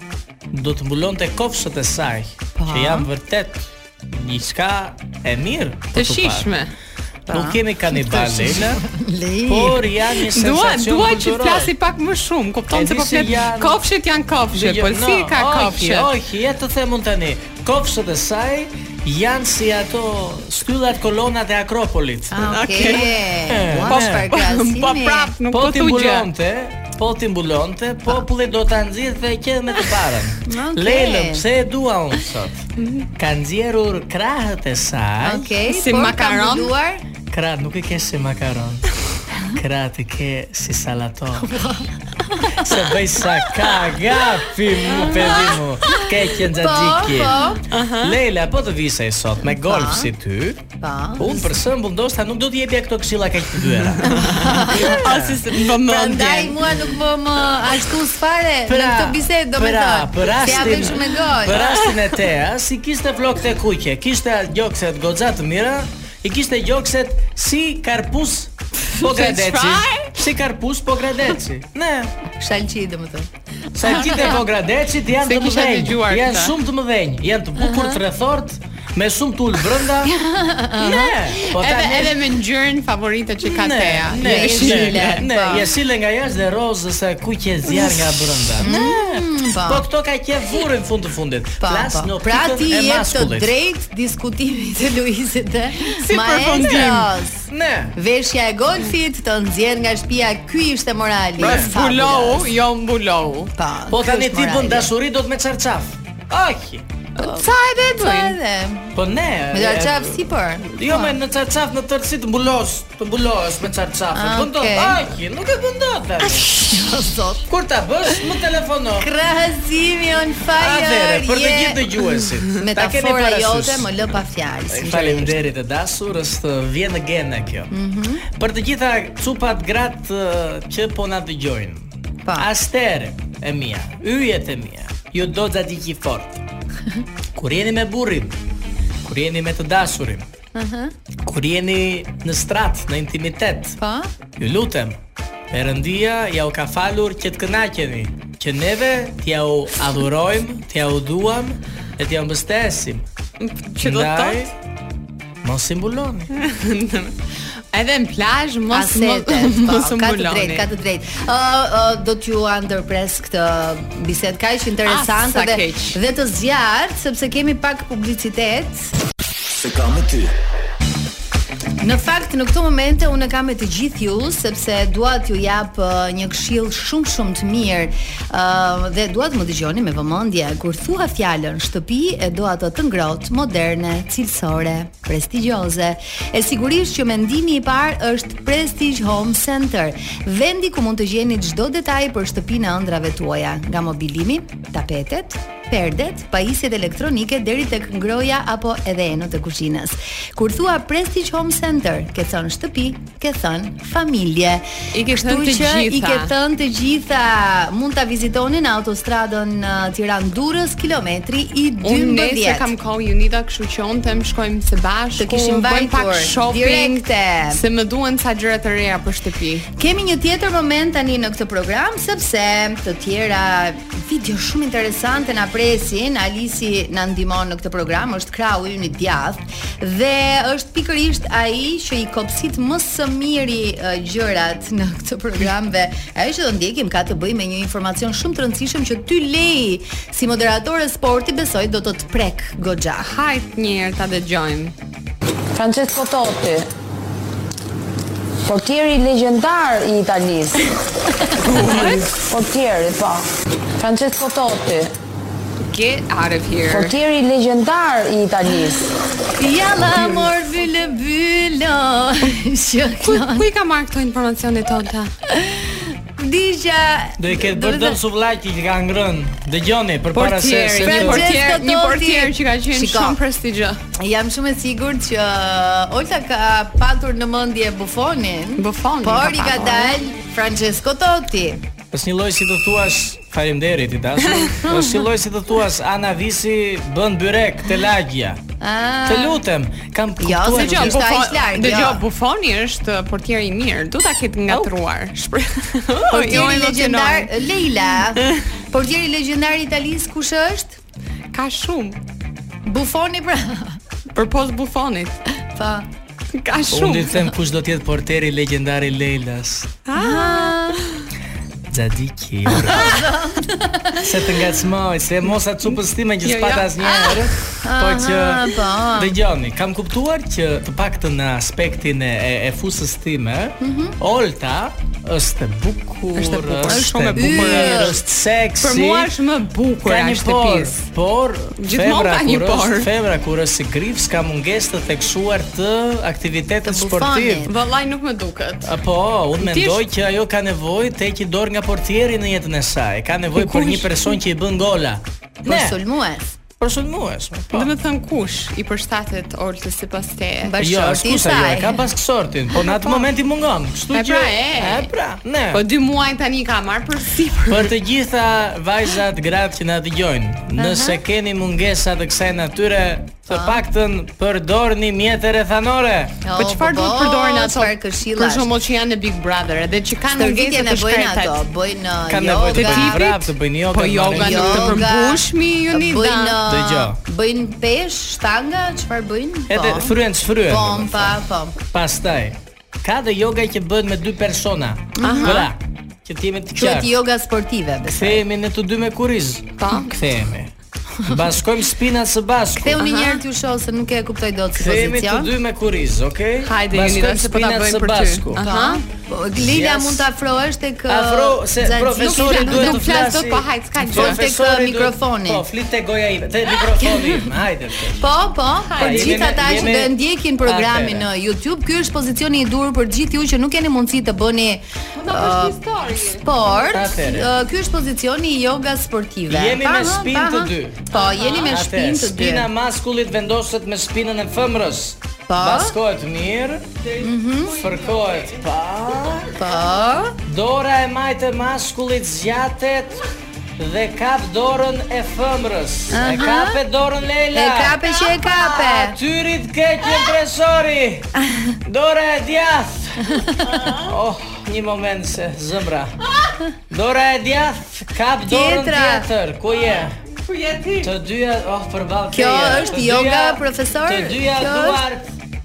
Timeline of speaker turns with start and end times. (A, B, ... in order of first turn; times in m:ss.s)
0:00.5-0:06.5 A
0:02.6-0:03.1 B
0:05.9-0:06.7 C
0:07.3-0:08.8 A
0:07.3-0:09.8 B
0:09.4-0:11.7 A
0:10.3-0:16.1 C
0:12.7-0:13.8 A
0:14.5-0:22.9 A
0:22.3-0:25.3 B
0:22.5-0:23.2 C
0:23.5-0:24.3 A
0:23.8-0:26.3 C
0:25.5-0:35.5 A
0:30.4-0:31.4 B
0:32.8-0:33.1 C
0:35.2-0:37.0 B
0:35.7-0:36.7 C
0:37.3-0:38.9 A
0:39.5-0:41.6 A
0:41.4-0:42.7 B
0:42.5-0:47.4 A
0:45.0-0:45.6 C
0:45.9-0:47.6 B
0:47.7-0:48.2 C
0:48.0-0:50.6 A
0:49.6-0:50.1 B
0:50.8-0:51.5 B
0:51.2-0:55.4 A
0:54.0-0:56.7 C
0:54.0-0:55.0 B
0:55.6-1:01.7 B
0:58.6-1:12.1 A
1:01.5-1:02.0 C
1:08.9-1:10.2 C
1:12.4-1:13.3 B
1:13.7-1:20.1 A
1:13.8-1:14.3 B
1:15.2-1:16.6 C
1:20.0-1:21.2 B
1:20.8-1:22.1 A
1:21.4-1:25.2 C
1:23.4-1:33.5 A
1:24.2-1:25.6 B
1:28.6-1:29.8 B
1:31.6-1:42.5 B
1:35.8-1:37.1 C
1:37.5-1:38.0 A
1:41.4-1:43.5 C
1:41.4-1:41.7 A
1:43.6-1:44.9 B
1:43.9-1:46.8 A
1:47.2-1:48.4 C
1:47.2-1:47.4 B
1:48.0-1:49.0 B
1:48.9-1:56.6 A
1:49.5-1:51.1 B
1:54.1-1:55.0 B
1:56.6-1:57.4 B
1:57.5-1:59.1 A
1:59.0-2:02.0 B
2:00.6-2:03.9 A
2:02.6-2:05.4 B
2:04.7-2:07.7 A
2:07.7-2:08.2 B
2:08.2-2:16.4 A
2:17.3-2:18.4 A
2:19.0-2:20.3 A
2:20.5-2:20.9 B
2:21.2-2:23.8 A
2:23.8-2:24.1 B
2:24.4-2:25.0 A
2:25.5-2:33.0 A
2:33.4-2:34.5 C
2:33.8-2:34.5 A
2:35.4-2:36.3 A
2:36.3-2:37.2 C
2:37.7-2:40.6 C
2:38.7-2:48.9 B
2:44.8-2:46.0 C
2:51.8-3:32.7 B
3:24.9-3:26.3 C
3:31.8-3:39.7 C
3:35.2-3:37.6 B
3:39.8-4:03.1 B
4:03.0-4:04.7 C
4:05.5-4:06.7 D
4:08.4-4:10.5 D
4:11.1-4:11.8 B
4:11.4-4:12.2 C
4:11.6-4:11.8 A
4:12.1-4:13.2 D
4:13.8-4:14.9 D
4:15.7-4:17.0 C
4:16.7-4:18.9 D
4:19.4-4:23.5 B
4:23.0-4:25.1 C
4:25.3-4:28.0 B
4:27.2-4:31.4 A
4:30.1-4:33.8 C
4:30.8-4:33.2 B
4:34.0-4:41.6 B
4:38.6-4:40.0 C
4:41.9-4:48.4 A
4:44.6-4:45.0 B
4:48.6-4:49.4 B
4:49.0-4:51.0 A
4:50.2-4:52.0 B
4:50.5-4:57.3 C
4:56.1-5:00.8 B
5:01.3-5:02.0 C
5:02.6-5:03.8 B
5:04.1-5:05.2 C
5:05.5-5:05.9 B
5:06.3-5:07.3 C
5:06.7-5:09.8 A
5:09.9-5:10.9 C
5:09.9-5:10.8 B
5:11.7-5:13.0 A
5:12.5-5:14.1 B
5:14.0-5:29.1 A
5:15.6-5:17.2 C
5:16.9-5:19.2 B
5:23.6-5:24.0 B
5:26.1-5:28.0 C
5:26.7-5:28.0 B
5:28.6-5:30.8 C
5:29.8-5:37.5 A
5:31.6-5:32.9 C
5:36.6-5:37.5 B
5:37.4-5:38.7 C
5:38.6-5:45.8 A
5:39.4-5:39.8 C
5:43.4-5:44.0 C
5:45.4-5:46.4 B
5:46.6-5:47.7 A
5:47.5-5:50.5 C
5:50.4-5:51.8 B
5:50.6-5:55.6 A
5:53.9-5:54.9 C
5:55.5-5:57.7 C
5:57.5-6:06.2 A
6:00.6-6:01.0 B
6:03.3-6:03.6 B
6:06.2-6:08.5 B
6:06.4-6:11.4 C
6:10.1-6:13.0 B
6:12.1-6:14.8 A
6:12.5-6:16.4 C
6:14.1-6:21.6 B
6:16.4-6:17.0 A
6:19.5-6:27.0 A
6:25.0-6:25.5 B
6:25.0-6:25.4 C
6:26.5-6:28.2 B
6:27.9-6:30.5 A
6:29.6-6:29.9 C
6:31.0-6:32.8 A
6:32.6-6:35.3 B
6:32.8-6:33.2 C
6:34.5-6:38.4 A
6:36.4-6:38.8 C
6:38.4-6:42.8 B
6:39.3-6:40.1 A
6:40.9-6:48.1 A
6:42.0-6:44.2 C
6:43.9-6:45.4 B
6:46.8-6:47.2 B
6:48.0-6:55.6 B
6:48.7-6:49.6 C
6:48.8-6:51.1 A
6:55.0-6:56.5 C
6:56.1-7:02.5 B
6:56.7-6:57.3 A
6:59.3-7:00.9 A
7:00.9-7:01.6 C
7:01.4-7:06.8 A
7:05.3-7:05.7 B
7:06.8-7:08.4 C
7:07.0-7:07.6 B
7:07.4-7:09.3 A
7:09.4-7:10.1 B
7:10.2-7:13.0 A
7:13.6-7:17.8 A
7:15.9-7:16.6 B
7:17.3-7:19.0 B
7:18.0-7:18.5 C
7:18.6-7:21.1 A
7:21.2-7:21.5 B
7:21.6-7:23.2 A
7:23.0-7:23.5 B
7:23.5-7:23.8 C
7:23.8-7:26.0 A
7:26.7-7:30.0 A
7:28.2-7:29.1 B
7:30.2-7:30.9 C
7:30.8-7:35.1 A
7:32.1-7:34.8 B